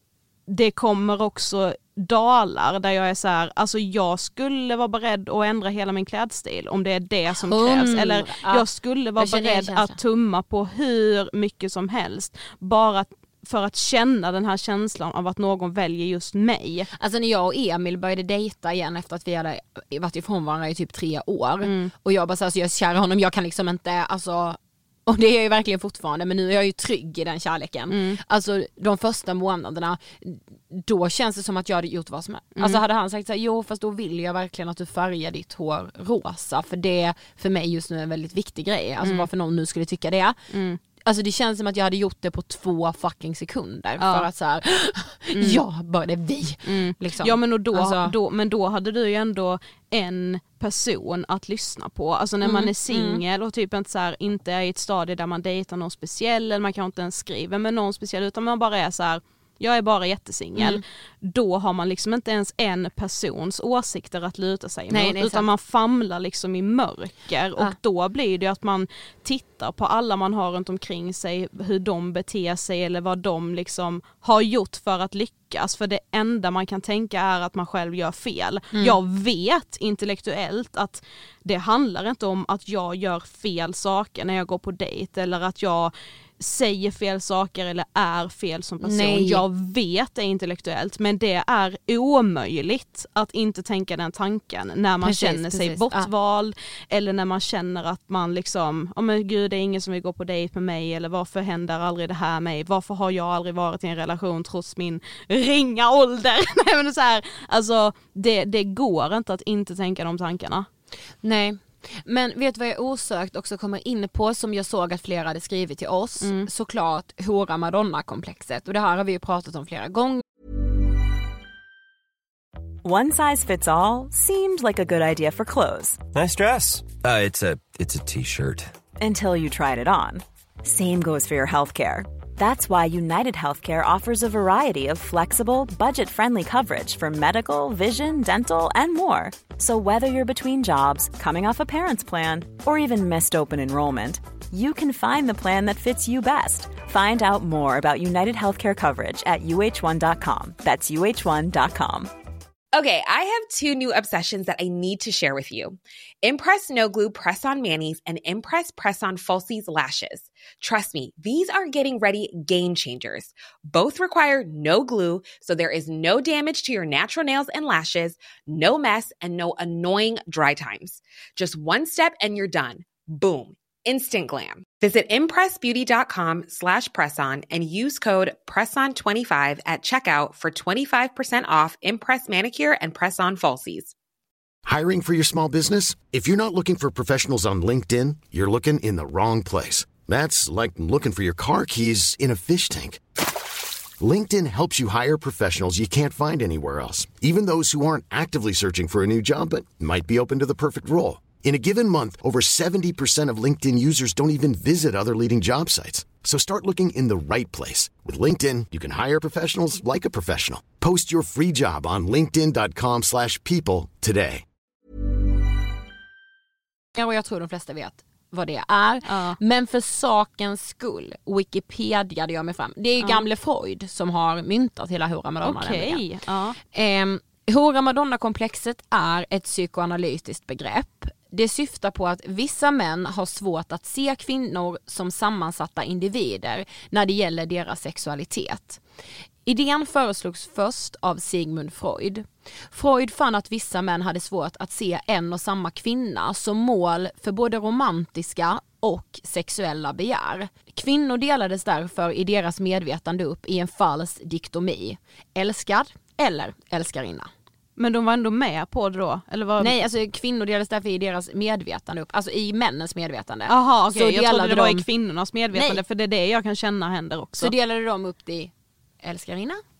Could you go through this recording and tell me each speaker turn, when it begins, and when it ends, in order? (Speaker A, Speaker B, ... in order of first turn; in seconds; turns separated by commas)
Speaker A: 0.5-16.9, Speaker B: 7.4-8.7, Speaker B: 9.2-10.0, Speaker B: 17.0-40.4, Speaker A: 21.6-21.9, Speaker A: 27.9-28.2, Speaker A: 32.5-32.8, Speaker A: 39.0-39.3, Speaker A: 40.5-40.8, Speaker B: 41.0-48.1, Speaker A: 44.0-44.3, Speaker A: 45.3-45.6, Speaker A: 46.6-110.7, Speaker B: 52.4-53.2, Speaker B: 60.6-60.8, Speaker B: 64.9-65.5, Speaker B: 78.7-79.0, Speaker B: 88.8-89.4, Speaker B: 95.0-96.1, Speaker B: 111.2-120.2, Speaker A: 116.2-116.5, Speaker C: 122.8-126.0, Speaker D: 126.1-128.7, Speaker C: 129.0-152.1, Speaker E: 152.7-183.9, Speaker F: 184.6-193.0, Speaker F: 194.0-214.4, Speaker B: 216.9-226.0, Speaker A: 219.1-219.4, Speaker A: 223.0-223.2, Speaker A: 225.4-226.6, Speaker B: 226.7-238.8, Speaker B: 239.4-257.3, Speaker A: 257.8-259.8, Speaker B: 259.6-264.9, Speaker A: 263.5-267.5, Speaker B: 265.5-265.8, Speaker B: 267.4-269.6